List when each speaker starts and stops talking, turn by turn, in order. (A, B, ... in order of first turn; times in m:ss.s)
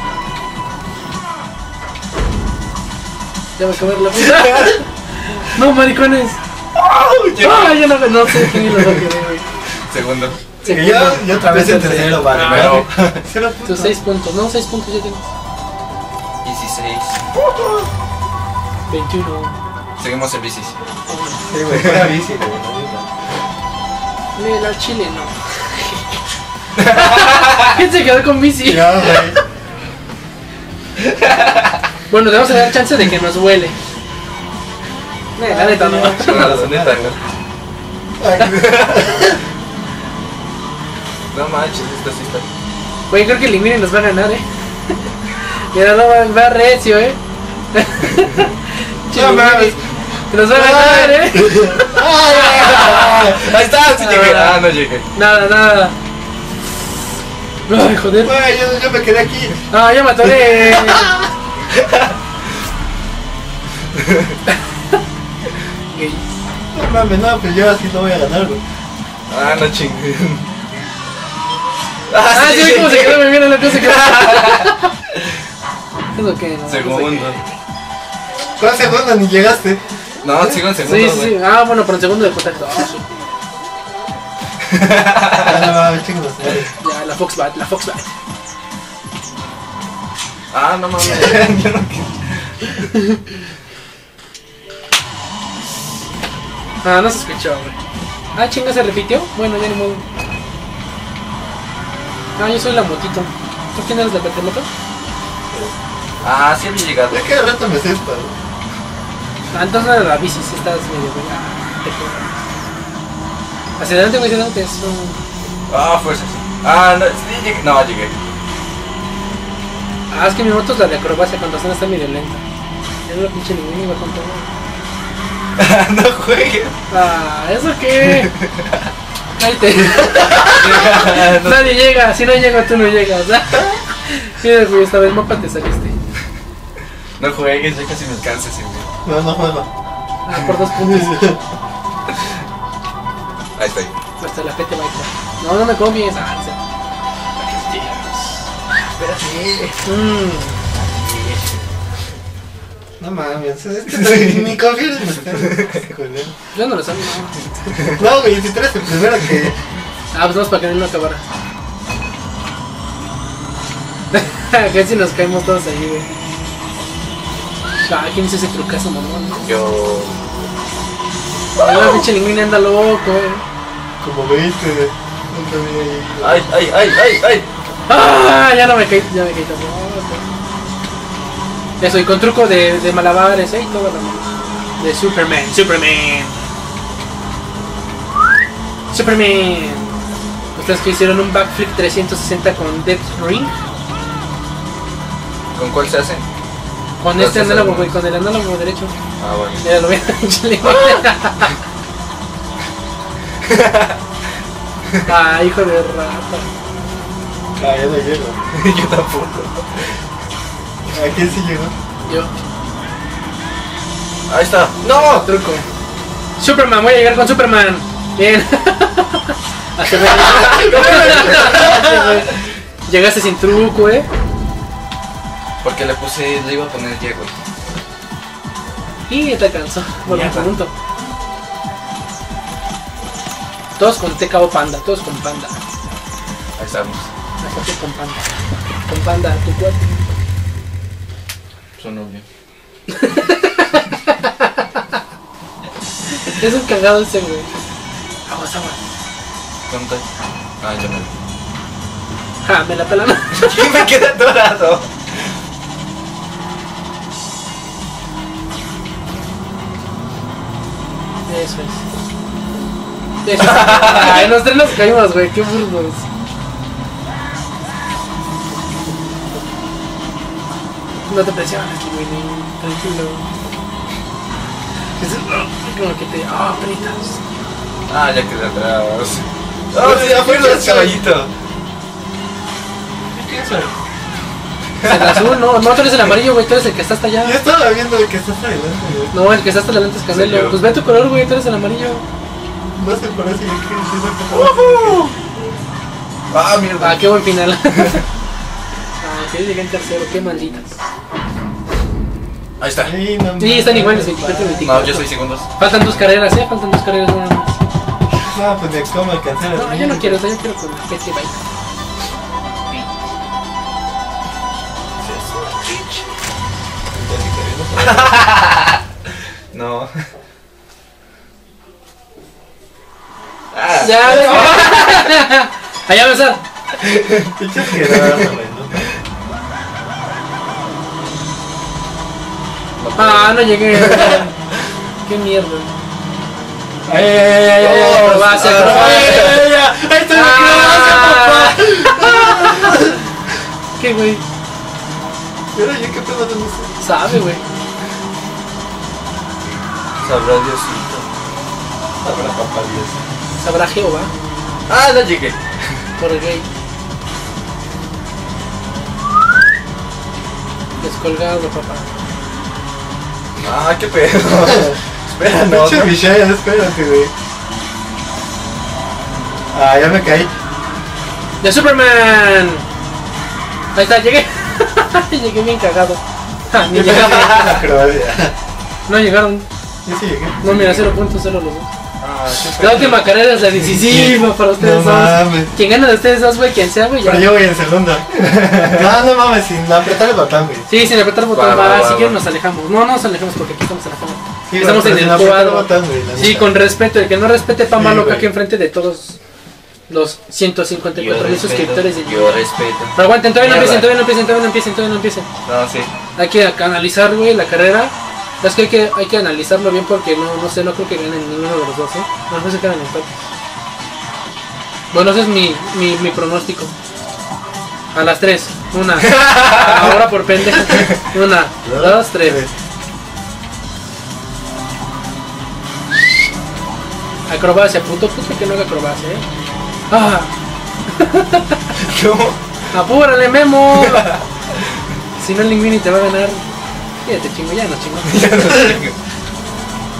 0:03.6-0:06.4 A
0:06.8-0:08.9 B
0:07.4-0:09.5 A
0:09.9-0:10.4 B
0:10.6-0:12.9 A
0:10.6-0:14.0 C
0:12.3-0:12.9 B
0:13.6-0:15.3 A
0:16.4-0:17.2 B
0:18.9-0:19.6 A
0:20.0-0:20.8 B
0:21.1-0:21.4 A
0:21.5-0:23.1 C
0:24.4-0:26.2 A
0:26.8-0:29.3 A
0:26.8-0:27.7 B
0:28.6-0:29.4 C
0:31.1-0:31.6 B
0:32.1-0:33.8 A
0:35.4-0:36.6 A
0:35.5-0:37.2 C
0:36.2-0:37.2 B
0:38.2-0:39.4 C
0:41.3-0:42.4 B
0:43.1-0:47.2 A
0:47.7-0:49.8 A
0:49.1-0:49.8 C
0:50.3-0:54.6 A
0:50.5-0:53.5 C
0:52.4-0:55.1 B
0:55.1-0:56.0 A
0:57.7-0:58.4 A
0:58.2-0:59.6 C
0:59.7-1:01.2 A
1:00.2-1:01.3 C
1:05.9-1:06.2 A
1:06.7-1:08.6 C
1:09.3-1:10.5 B
1:12.1-1:14.7 B
1:12.3-1:14.9 A
1:16.1-1:17.4 A
1:16.7-1:17.4 B
1:18.6-1:19.8 C
1:20.2-1:21.4 B
1:20.8-1:23.1 A
1:24.8-1:25.7 B
1:25.4-1:26.7 C
1:26.8-1:28.1 A
1:30.5-1:32.8 B
1:36.8-1:37.8 A
1:38.4-1:40.0 A
1:42.4-1:44.7 A
1:46.2-1:47.3 B
1:47.1-1:48.4 C
1:49.5-1:52.4 A
1:53.8-1:55.2 A
1:55.7-1:58.1 B
2:00.1-2:02.4 A
2:03.1-2:04.5 A
2:05.6-2:06.8 B
2:06.9-2:08.3 A
2:08.0-2:08.8 B
2:09.4-2:16.0 A
2:10.1-2:11.8 B
2:17.2-2:18.9 B
2:19.0-2:19.7 C
2:20.3-2:21.3 A
2:20.8-2:21.4 C
2:23.6-2:24.0 B
2:24.2-2:26.6 A
2:27.4-2:28.5 A
2:29.0-2:29.8 B
2:29.8-2:30.6 A
2:30.9-2:31.6 B
2:33.0-2:36.3 C
2:33.9-2:34.5 B
2:36.5-2:37.4 A
2:37.9-2:39.6 C
2:40.1-2:41.2 A
2:44.1-2:46.1 A
2:47.8-2:49.5 A
2:49.4-2:50.2 B
2:51.6-2:52.0 B
2:51.6-2:53.4 A
2:54.0-2:56.4 C
2:56.2-2:57.5 B
2:57.9-3:00.2 A
3:01.8-3:04.3 A
3:04.8-3:06.5 A
3:08.9-3:09.9 A
3:10.6-3:13.5 A
3:15.6-3:16.3 B
3:17.0-3:18.9 A
3:17.2-3:18.0 B
3:19.2-3:19.6 B
3:19.5-3:21.6 A
3:23.5-3:24.0 B
3:25.1-3:26.5 A
3:27.6-3:28.5 C
3:28.5-3:29.6 B
3:30.9-3:31.7 C
3:32.1-3:32.3 A
3:34.3-3:35.3 B
3:34.9-3:35.7 A
3:36.4-3:44.1 A
3:40.2-3:41.8 B
3:40.5-3:42.0 C
3:45.6-3:47.3 B
3:49.1-3:50.7 A
3:50.0-3:50.6 B
3:53.8-3:55.6 A
3:56.6-3:57.1 B
3:57.4-3:58.3 A
3:58.9-4:00.0 A
4:01.8-4:02.2 B
4:02.9-4:04.8 A
4:06.2-4:07.5 A
4:08.3-4:08.8 A
4:09.7-4:10.0 B
4:10.6-4:11.1 B
4:12.4-4:13.9 A
4:13.3-4:14.9 B
4:21.3-4:21.8 A
4:23.2-4:26.0 A
4:23.4-4:24.3 B
4:31.1-4:33.3 A
4:35.0-4:37.2 A
4:37.9-4:41.3 B
4:39.7-4:41.2 C
4:43.2-4:43.7 C
4:44.8-4:45.2 B
4:44.8-4:47.4 A
4:47.2-4:49.2 C
4:49.1-4:52.0 A
4:50.1-4:50.6 B
4:52.8-4:55.0 C
4:54.3-4:55.2 B
4:56.3-4:57.2 B
4:56.8-4:58.0 A
4:59.0-5:00.8 A
5:02.6-5:02.9 B
5:02.8-5:05.0 C
5:03.4-5:07.6 A
5:04.6-5:05.9 B
5:08.2-5:10.2 C
5:09.6-5:11.4 A
5:15.0-5:16.0 B
5:16.9-5:18.3 C
5:17.8-5:18.8 B
5:19.5-5:19.9 B
5:23.5-5:25.1 B
5:23.7-5:26.4 A
5:26.8-5:27.3 B
5:27.4-5:28.8 C
5:27.9-5:28.3 B
5:32.8-5:34.3 B
5:33.0-5:34.4 A
5:35.0-5:35.7 A
5:36.9-5:43.0 C
5:37.5-5:39.4 B
5:37.6-5:39.4 A
5:40.1-5:42.9 A
5:43.8-5:44.2 A
5:45.5-5:46.7 C
5:46.8-5:47.4 A
5:50.0-5:51.1 B
5:52.0-5:53.0 B
5:53.4-5:54.1 A
5:54.7-5:55.4 B
5:56.0-5:56.5 A
6:00.8-6:01.9 A
6:03.4-6:06.0 B
6:05.4-6:07.1 C
6:09.5-6:10.3 C
6:11.4-6:12.6 A
6:13.8-6:17.6 A
6:16.7-6:18.4 C
6:17.1-6:17.6 B
6:18.9-6:19.5 A
6:19.8-6:20.4 C
6:20.4-6:21.7 A
6:20.4-6:20.9 B
6:22.0-6:23.1 B
6:22.6-6:27.3 A
6:23.8-6:25.5 C
6:27.0-6:30.7 C
6:28.3-6:28.8 B
6:30.7-6:39.2 A
6:31.3-6:32.2 B
6:34.5-6:36.6 C
6:37.7-6:38.3 C
6:39.9-6:45.3 A
6:41.0-6:44.0 B
6:45.4-6:45.9 B
6:46.2-6:53.1 A
6:54.9-6:56.7 A
6:57.9-7:02.4 A
6:59.0-7:00.0 B
7:01.6-7:02.5 C
7:07.3-7:09.2 A
7:09.9-7:10.3 A
7:10.9-7:11.7 A
7:11.8-7:12.4 B
7:12.7-7:14.1 A
7:13.8-7:14.2 B
7:15.2-7:16.4 A
7:17.0-7:18.8 A
7:18.0-7:19.0 B